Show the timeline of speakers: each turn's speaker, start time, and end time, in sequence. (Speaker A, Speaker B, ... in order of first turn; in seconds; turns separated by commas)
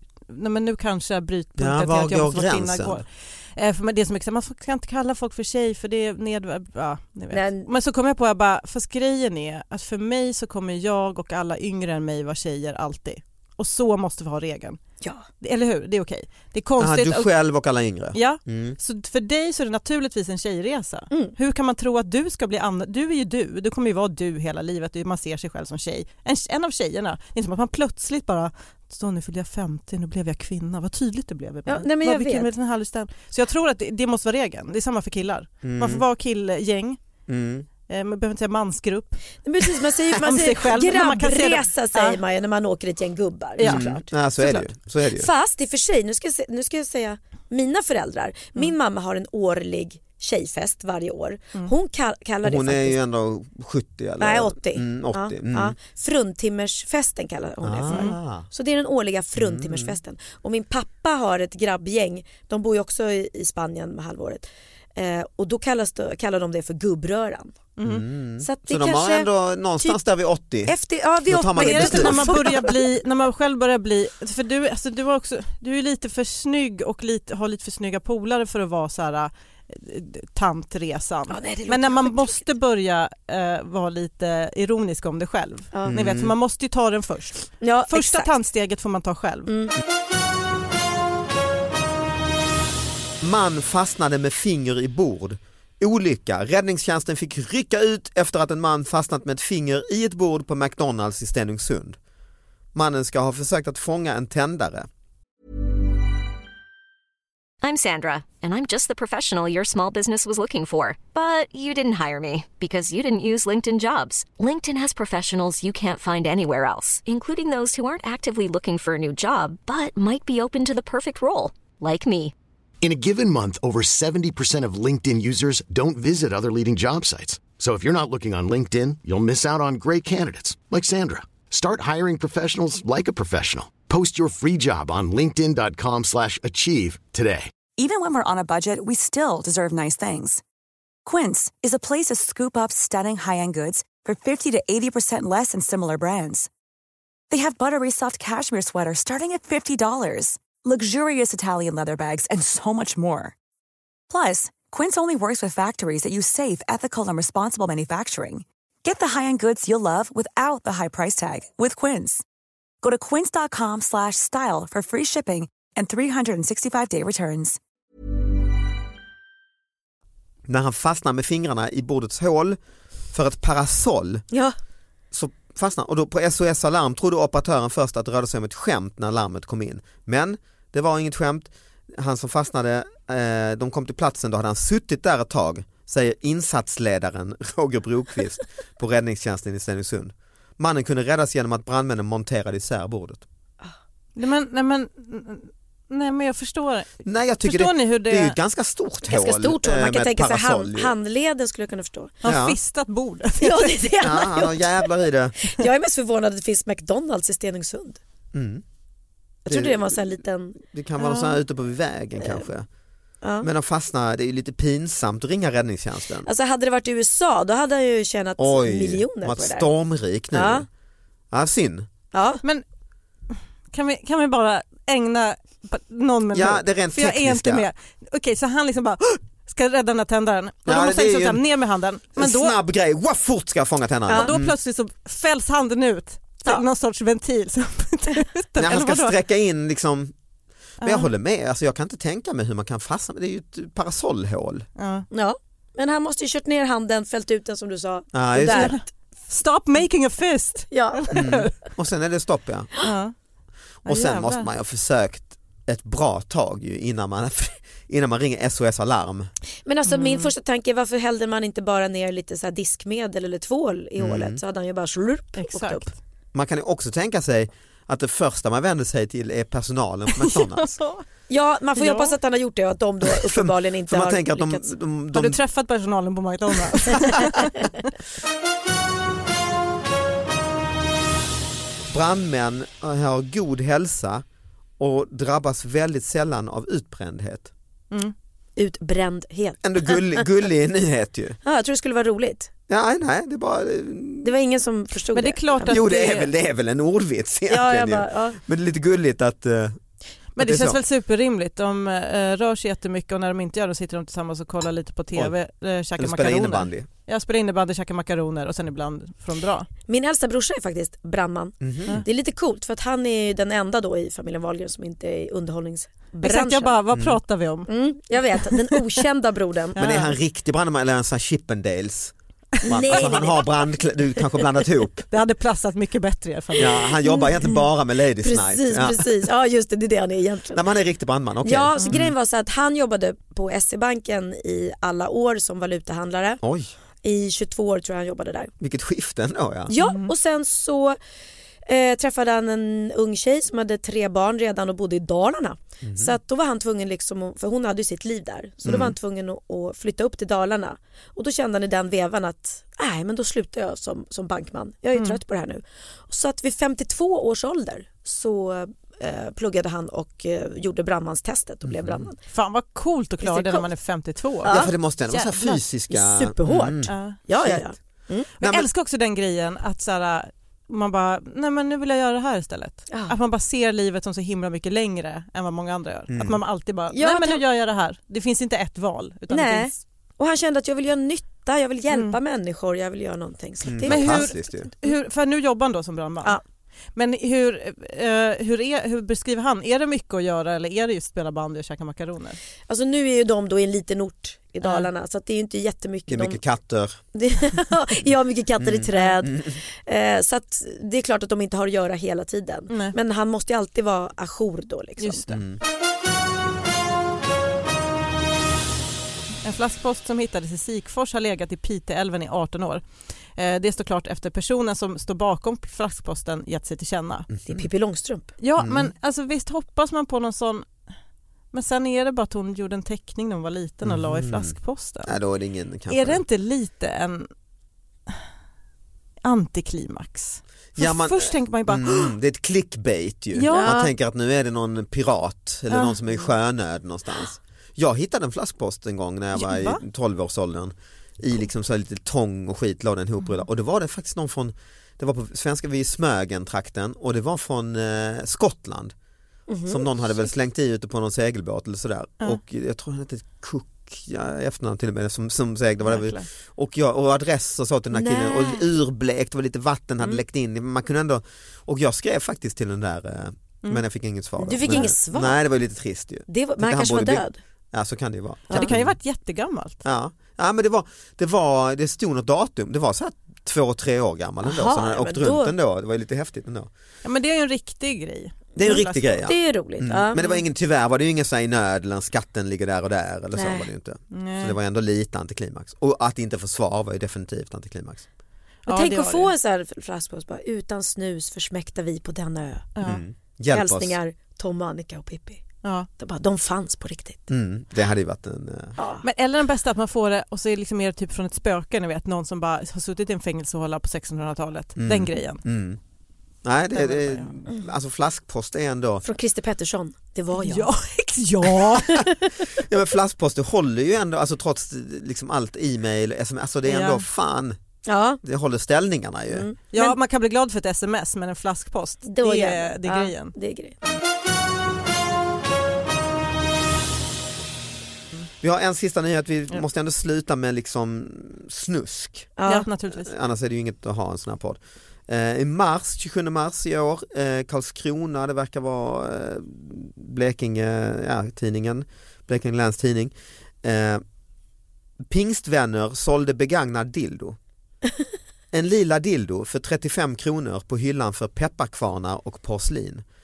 Speaker A: 0.3-14.8, Speaker B: 1.6-3.0, Speaker C: 7.3-7.7, Speaker A: 15.4-17.3, Speaker B: 16.8-18.8, Speaker A: 18.1-37.0, Speaker C: 31.7-32.5, Speaker B: 35.6-36.0, Speaker B: 37.3-37.7, Speaker A: 37.9-39.2, Speaker C: 39.4-44.6, Speaker A: 40.2-42.2, Speaker A: 43.6-43.9, Speaker B: 43.6-45.3, Speaker C: 45.1-53.0, Speaker B: 52.4-55.8, Speaker C: 54.2-67.6, Speaker B: 57.6-58.5, Speaker A: 57.9-58.2, Speaker B: 59.4-60.0, Speaker A: 67.8-68.0, Speaker B: 67.8-70.7, Speaker C: 68.4-69.3, Speaker C: 70.7-72.7, Speaker B: 71.3-72.6, Speaker A: 71.6-89.5, Speaker C: 81.3-82.4, Speaker C: 85.7-86.0, Speaker B: 85.9-86.3, Speaker C: 87.6-88.3, Speaker C: 89.5-89.7, Speaker B: 93.2-102.0, Speaker B: 102.8-104.9, Speaker D: 107.6-122.3, Speaker E: 122.8-137.5, Speaker F: 137.8-140.4, Speaker F: 141.1-146.5, Speaker F: 147.3-153.3, Speaker F: 154.1-162.2, Speaker F: 162.8-167.6, Speaker B: 170.5-172.6, Speaker B: 173.1-174.3, Speaker B: 175.1-193.2, Speaker A: 194.2-198.4, Speaker B: 197.1-200.9, Speaker C: 199.1-202.2, Speaker A: 202.2-203.8, Speaker B: 202.2-202.6, Speaker C: 203.4-204.8, Speaker B: 204.0-205.4, Speaker C: 205.4-208.0, Speaker B: 208.3-208.6, Speaker C: 209.4-211.3, Speaker B: 209.5-212.7, Speaker C: 212.2-212.5, Speaker C: 213.2-213.5, Speaker B: 213.4-216.3, Speaker C: 216.3-219.7, Speaker B: 218.4-220.7, Speaker C: 220.3-220.7, Speaker B: 221.3-221.9, Speaker C: 222.1-222.4, Speaker A: 223.3-232.6, Speaker B: 226.3-227.7, Speaker B: 230.7-231.4, Speaker B: 232.2-234.6, Speaker C: 234.1-234.3, Speaker A: 234.2-239.2, Speaker B: 238.6-240.1, Speaker A: 240.8-241.1, Speaker B: 240.8-244.7, Speaker A: 244.8-245.1, Speaker C: 245.1-248.8, Speaker B: 248.1-248.8, Speaker A: 248.5-251.5, Speaker C: 250.7-251.3, Speaker B: 251.1-252.7, Speaker A: 252.8-253.1, Speaker B: 253.8-259.3, Speaker A: 253.9-254.5, Speaker C: 259.6-265.9, Speaker A: 259.9-260.3, Speaker B: 264.0-264.4, Speaker A: 265.4-266.0, Speaker B: 266.3-270.7, Speaker A: 270.2-271.1, Speaker C: 271.3-274.7, Speaker A: 271.8-272.1, Speaker B: 273.1-275.4, Speaker A: 275.1-277.9, Speaker B: 281.9-284.2, Speaker B: 284.8-287.5, Speaker C: 288.6-290.2, Speaker B: 289.6-291.4, Speaker C: 291.4-292.5, Speaker B: 292.7-294.3, Speaker C: 294.2-295.9, Speaker A: 295.1-296.3, Speaker B: 295.7-299.8, Speaker C: 297.5-298.4, Speaker A: 300.4-309.7, Speaker B: 300.4-300.8, Speaker B: 306.0-306.9, Speaker C: 309.9-316.8, Speaker B: 311.6-312.1, Speaker A: 316.2-317.7, Speaker B: 316.9-317.2, Speaker C: 317.7-320.1, Speaker A: 318.3-319.0, Speaker A: 319.8-320.1, Speaker B: 319.8-325.1, Speaker C: 322.6-323.5, Speaker A: 325.1-326.9, Speaker B: 326.6-329.1, Speaker C: 327.0-327.5, Speaker C: 328.2-330.6, Speaker B: 330.5-332.1, Speaker C: 331.4-336.4, Speaker B: 336.4-336.7, Speaker C: 337.0-338.5, Speaker B: 338.6-339.7, Speaker C: 339.7-341.0, Speaker A: 339.8-340.1, Speaker C: 341.7-362.2, Speaker B: 345.8-346.1, Speaker B: 348.6-348.9, Speaker A: 354.9-355.2, Speaker B: 361.6-362.1, Speaker A: 362.3-365.6, Speaker C: 363.2-363.7, Speaker C: 364.4-364.7, Speaker B: 364.5-367.6, Speaker C: 365.9-368.3, Speaker A: 366.9-367.2, Speaker A: 368.4-379.8, Speaker B: 368.4-368.7, Speaker B: 376.1-376.4, Speaker C: 376.9-377.4, Speaker C: 379.3-384.9, Speaker A: 381.9-382.2, Speaker B: 383.6-384.7, Speaker A: 383.9-386.4, Speaker A: 387.0-392.4, Speaker C: 392.7-396.4, Speaker A: 394.6-394.9, Speaker B: 396.1-397.0, Speaker C: 397.1-405.3, Speaker B: 398.6-399.6, Speaker A: 402.7-403.0, Speaker A: 405.0-405.4, Speaker B: 405.3-405.6, Speaker A: 409.4-417.3, Speaker B: 417.3-417.7, Speaker C: 417.5-418.3, Speaker A: 418.4-420.7, Speaker B: 418.6-418.9, Speaker A: 421.5-425.1, Speaker B: 423.8-426.2, Speaker A: 425.9-427.3, Speaker A: 429.2-432.1, Speaker B: 430.8-448.9, Speaker A: 433.3-433.8, Speaker C: 433.5-433.9, Speaker A: 435.7-436.0, Speaker A: 439.4-439.8, Speaker C: 449.5-449.9, Speaker B: 449.7-469.0, Speaker A: 455.9-456.3, Speaker C: 457.9-458.7, Speaker C: 464.4-465.4, Speaker A: 464.6-464.9, Speaker C: 466.3-467.4, Speaker C: 468.5-468.7, Speaker A: 468.5-469.8, Speaker B: 469.9-476.7, Speaker C: 474.4-475.5, Speaker A: 477.0-479.3, Speaker B: 478.6-488.1, Speaker C: 478.6-480.2, Speaker C: 483.4-483.6, Speaker A: 484.1-484.6, Speaker A: 488.7-489.3, Speaker C: 488.7-492.7, Speaker A: 492.8-493.0, Speaker B: 492.8-494.0, Speaker C: 493.5-495.4, Speaker C: 496.0-497.3, Speaker B: 497.3-498.8, Speaker C: 498.8-499.1, Speaker A: 499.0-505.4, Speaker B: 504.8-505.8, Speaker B: 506.4-509.0, Speaker A: 506.7-507.3, Speaker C: 509.0-510.7, Speaker A: 510.4-512.0, Speaker C: 511.8-512.4, Speaker B: 512.5-517.6, Speaker A: 516.7-517.0, Speaker C: 517.9-518.2, Speaker B: 518.2-519.5, Speaker C: 519.3-520.0, Speaker A: 519.7-523.4, Speaker C: 522.1-523.8, Speaker B: 528.4-532.3, Speaker C: 532.4-532.7, Speaker A: 532.5-533.1, Speaker B: 532.9-544.0, Speaker B: 545.1-547.4, Speaker B: 548.5-553.0